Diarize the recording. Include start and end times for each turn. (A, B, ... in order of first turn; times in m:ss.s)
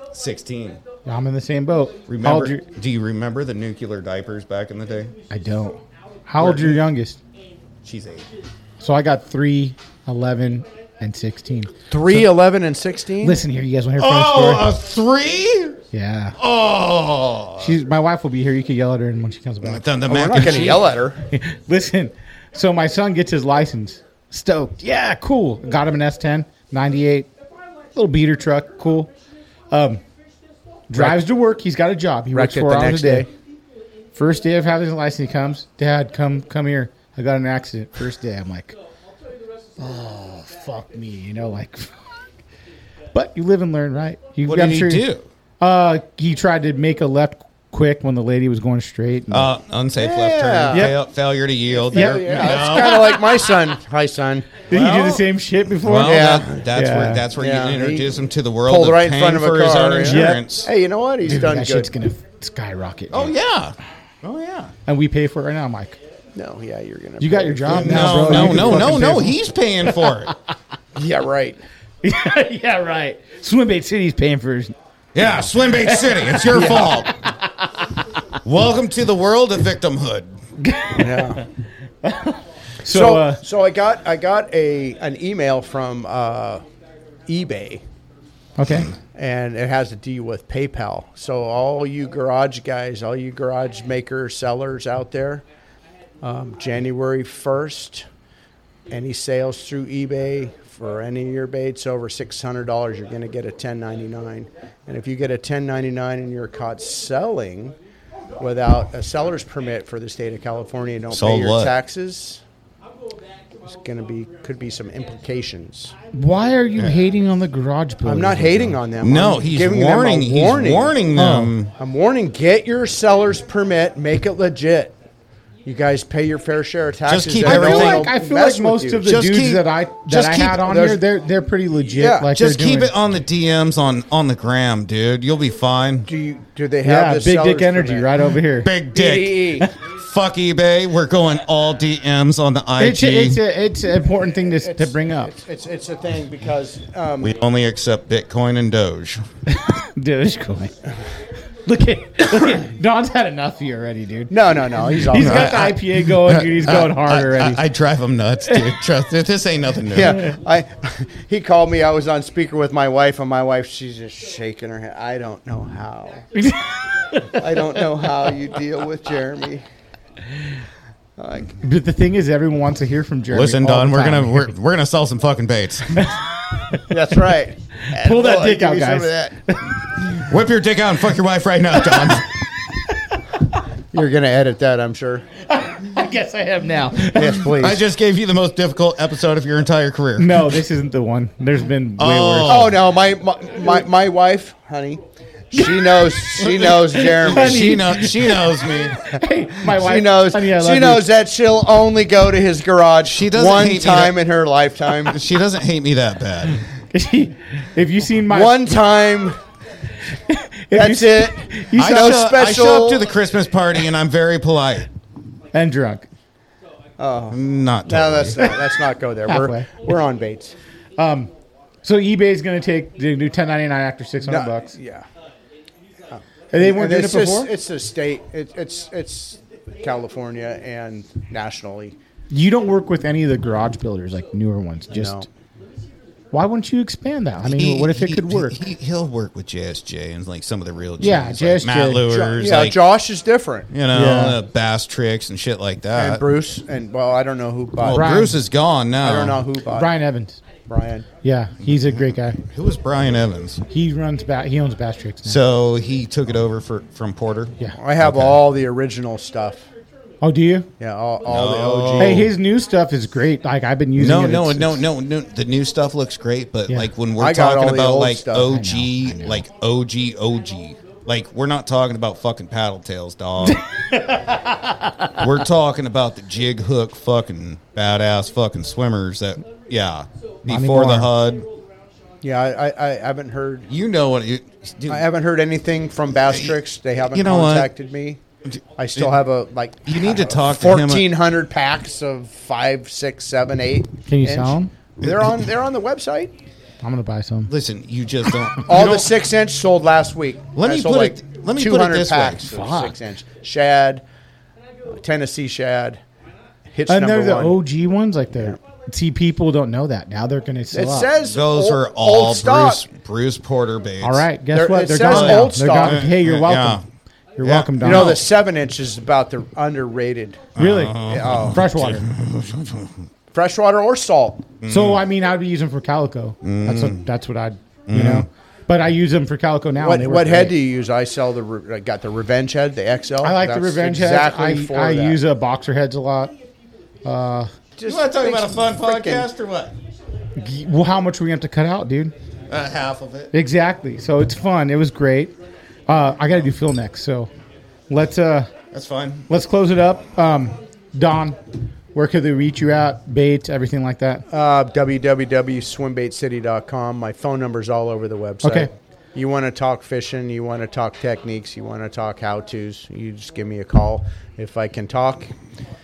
0:00.1-0:00.8 A
0:01.1-0:02.6 B
0:02.1-0:05.1 A
0:05.3-0:07.2 B
0:07.8-0:08.3 A
0:08.8-0:12.3 B
0:11.9-0:13.4 C
0:13.2-0:14.7 B
0:14.0-0:15.8 A
0:15.9-0:16.4 B
0:16.4-0:17.8 A
0:17.6-0:19.8 B
0:19.6-0:21.0 A
0:20.1-0:21.2 C
0:20.4-0:20.8 B
0:21.3-0:27.3 B
0:27.9-0:29.1 B
0:29.7-0:30.0 B
0:30.9-0:33.3 B
0:30.9-0:31.2 C
0:32.4-0:33.3 C
0:34.2-0:38.8 B
0:39.8-0:41.9 B
0:43.1-0:45.1 B
0:44.4-0:45.3 A
0:45.6-0:49.5 B
0:49.3-0:53.2 A
0:50.0-0:50.9 C
0:50.7-0:51.0 B
0:51.7-0:54.5 C
0:51.9-0:53.3 B
0:54.7-0:57.3 B
0:54.7-0:55.2 A
0:55.8-1:00.7 A
0:56.0-0:56.6 C
0:57.4-1:01.9 C
1:00.0-1:00.5 B
1:01.2-1:03.3 B
1:03.1-1:04.7 A
1:04.9-1:06.0 B
1:06.4-1:09.3 C
1:07.2-1:09.4 B
1:07.7-1:10.3 A
1:11.0-1:11.6 C
1:12.0-1:14.7 B
1:15.2-1:17.1 A
1:15.8-1:17.7 B
1:18.4-1:20.3 A
1:20.6-1:21.4 B
1:21.0-1:21.4 C
1:22.0-1:23.4 B
1:22.8-1:26.6 C
1:27.3-1:27.8 C
1:28.6-1:28.9 B
1:29.1-1:35.4 C
1:36.2-1:38.0 C
1:38.9-1:47.8 C
1:48.4-1:52.4 C
1:51.1-1:51.8 A
1:53.7-1:55.9 C
1:56.1-1:58.8 B
1:58.0-2:01.0 C
1:59.0-2:01.7 A
2:01.2-2:01.5 B
2:01.8-2:04.9 C
2:05.6-2:09.1 C
2:07.1-2:08.1 A
2:07.4-2:12.9 B
2:09.1-2:10.8 A
2:10.6-2:11.0 C
2:11.9-2:12.3 C
2:12.3-2:16.1 A
2:16.1-2:18.1 C
2:16.8-2:18.7 B
2:18.6-2:23.4 A
2:18.9-2:19.7 C
2:22.8-2:25.3 B
2:24.6-2:27.3 C
2:27.2-2:29.2 A
2:29.5-2:30.8 B
2:31.7-2:37.6 B
2:34.3-2:35.6 C
2:35.1-2:40.2 A
2:39.9-2:46.2 C
2:46.4-2:47.6 B
2:47.4-2:49.6 C
2:51.2-2:51.6 C
2:51.6-2:54.5 B
2:53.3-2:56.2 A
2:56.9-2:59.3 C
2:57.9-2:59.7 B
3:00.1-3:02.4 A
3:03.9-3:05.3 C
3:05.5-3:07.5 B
3:07.1-3:07.8 C
3:07.4-3:10.5 A
3:10.2-3:12.6 B
3:12.0-3:12.9 A
3:12.5-3:17.9 C
3:15.5-3:21.1 B
3:16.4-3:19.1 A
3:19.6-3:25.2 C
3:23.1-3:24.2 A
3:25.0-3:26.6 A
3:26.9-3:28.8 B
3:28.3-3:29.4 C
3:30.3-3:32.2 B
3:30.7-3:33.1 C
3:31.8-3:34.9 A
3:35.5-3:36.0 B
3:37.0-3:37.4 C
3:37.3-3:38.6 A
3:37.9-3:40.6 C
3:39.3-3:39.7 B
3:41.0-3:41.3 B
3:41.8-3:44.7 B
3:44.2-3:45.1 C
3:46.1-3:52.0 C
3:46.5-3:47.5 B
3:52.3-3:55.3 B
3:54.9-3:55.3 C
3:56.3-3:58.6 B
3:57.4-4:02.8 A
4:01.0-4:02.1 B
4:02.1-4:03.7 C
4:03.7-4:06.2 A
4:03.9-4:04.4 B
4:06.0-4:08.1 C
4:07.8-4:09.4 A
4:07.9-4:08.4 B
4:09.0-4:09.9 C
4:09.7-4:10.4 B
4:10.7-4:11.1 C
4:11.2-4:12.4 B
4:12.4-4:13.6 A
4:13.7-4:15.4 B
4:15.2-4:18.4 A
4:17.8-4:19.7 C
4:20.2-4:20.7 B
4:20.8-4:22.3 C
4:21.3-4:22.3 A
4:22.0-4:24.8 B
4:24.0-4:33.6 A
4:27.2-4:28.5 C
4:28.4-4:29.4 B
4:33.5-4:35.1 B
4:35.2-4:41.5 A
4:40.5-4:41.1 B
4:42.2-4:43.7 C
4:43.7-4:45.1 A
4:44.9-4:48.2 C
4:46.1-4:47.7 A
4:48.5-4:49.1 A
4:48.8-4:56.3 C
4:49.8-4:51.2 A
4:54.1-4:54.7 B
4:56.8-4:57.5 B
4:57.5-4:59.1 A
4:58.7-5:04.0 C
5:00.6-5:02.5 A
5:02.5-5:03.0 B
5:04.9-5:06.0 C
5:06.7-5:07.6 C
5:06.9-5:11.1 B
5:10.7-5:12.8 C
5:11.2-5:14.3 A
5:14.0-5:16.8 B
5:14.5-5:16.0 C
5:15.0-5:16.8 A
5:17.4-5:18.2 B
5:17.4-5:18.2 A
5:17.8-5:20.5 C
5:20.6-5:22.1 B
5:20.6-5:23.0 A
5:21.0-5:21.7 C
5:23.3-5:24.5 C
5:24.6-5:25.0 A
5:24.7-5:30.6 B
5:26.4-5:27.0 A
5:27.9-5:28.3 A
5:29.8-5:35.2 C
5:33.2-5:36.3 B
5:37.0-5:37.5 B
5:37.8-5:39.3 C
5:37.8-5:39.8 A
5:40.4-5:42.1 B
5:42.5-5:43.3 A
5:43.3-5:45.3 B
5:45.9-5:47.3 B
5:47.9-5:48.5 B
5:48.7-5:49.3 A
5:49.3-5:51.4 B
5:51.9-5:54.2 B
5:54.3-6:05.3 C
5:58.4-5:58.7 B